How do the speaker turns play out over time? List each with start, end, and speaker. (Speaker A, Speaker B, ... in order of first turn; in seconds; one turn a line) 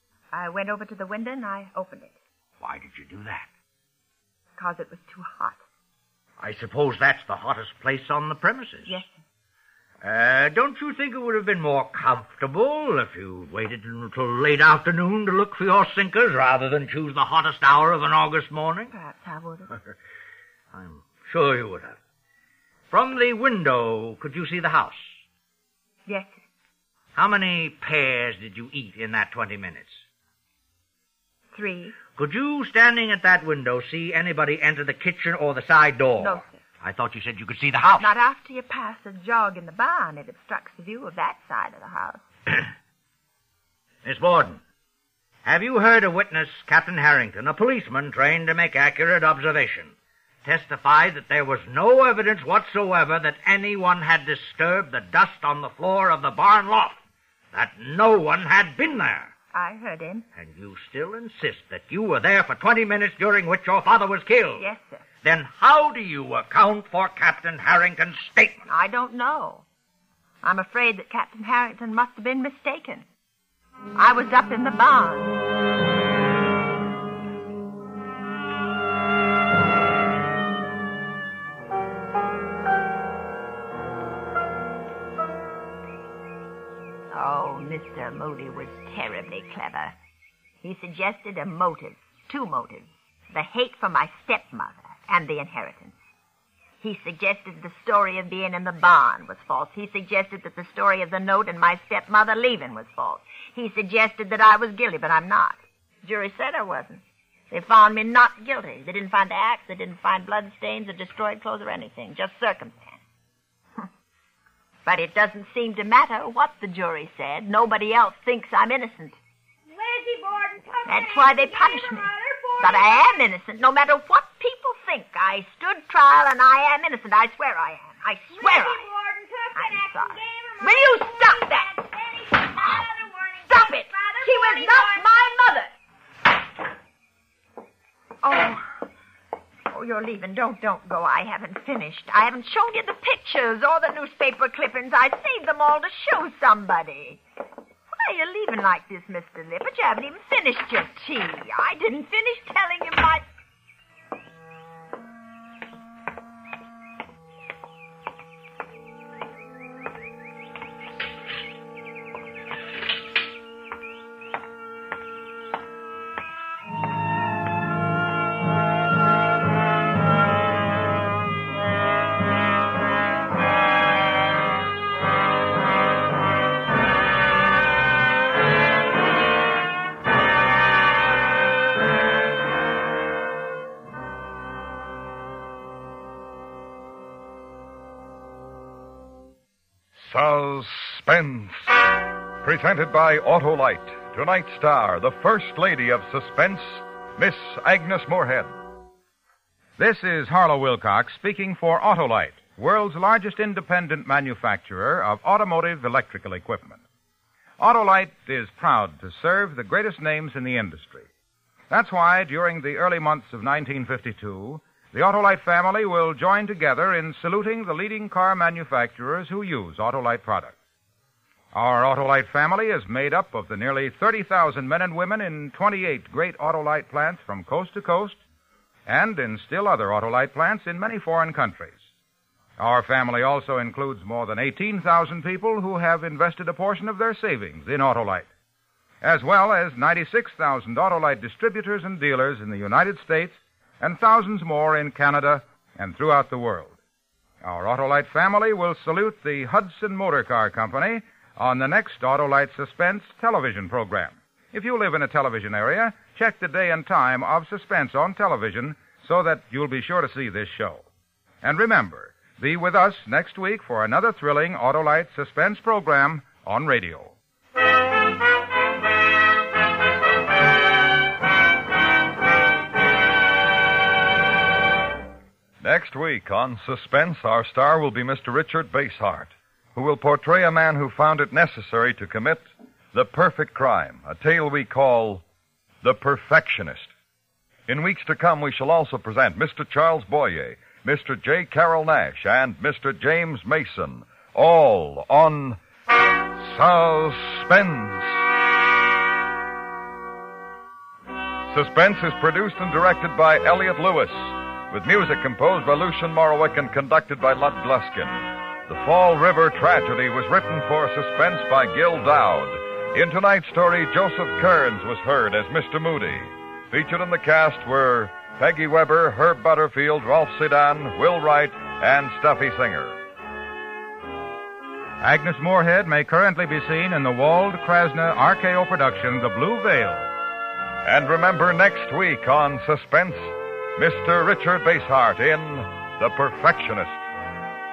Speaker A: 0.3-2.2
Speaker B: 2.6-3.5
Speaker A: 4.5-5.6
Speaker B: 6.4-9.0
Speaker A: 8.8-9.1
Speaker B: 10.0-18.9
Speaker A: 18.9-19.7
Speaker B: 20.7-22.0
Speaker B: 22.9-25.1
Speaker A: 26.1-26.3
Speaker B: 27.1-30.0
Speaker A: 31.5-32.0
Speaker B: 32.1-38.1
Speaker A: 36.2-36.5
Speaker A: 38.0-42.2
Speaker B: 44.0-44.6
Speaker B: 45.4-57.0
Speaker B: 57.5-59.3
Speaker A: 59.5-60.2
Speaker B: 60.3-64.6
Speaker A: 64.6-65.0
Speaker B: 65.2-68.6
Speaker A: 68.7-69.6
Speaker A: 70.4-73.0
Speaker A: 73.9-75.3
Speaker A: 87.1-90.0
Speaker A: 90.6-96.0
Speaker A: 96.8-113.0
Speaker A: 114.8-119.2
Speaker C: 119.7-123.2
Speaker A: 120.8-128.9
Speaker C: 128.3-135.3
Speaker A: 129.5-131.9
Speaker A: 133.5-135.7
Speaker A: 138.2-138.8
Speaker A: 139.7-147.2
Speaker A: 147.9-153.2
Speaker D: 190.0-191.7
Speaker D: 192.4-198.5
Speaker E: 199.8-206.8
Speaker E: 207.6-211.1
Speaker E: 211.7-220.6
Speaker E: 221.5-228.2
Speaker E: 228.9-231.8
Speaker E: 232.6-238.3
Speaker E: 239.0-246.7
Speaker E: 247.4-260.8
Speaker E: 261.4-267.1
Speaker D: 275.6-285.2
Speaker D: 285.8-286.9
Speaker D: 287.7-295.6
Speaker D: 296.4-298.2
Speaker D: 301.5-323.0
Speaker E: 325.0-330.1
Speaker D: 330.8-337.0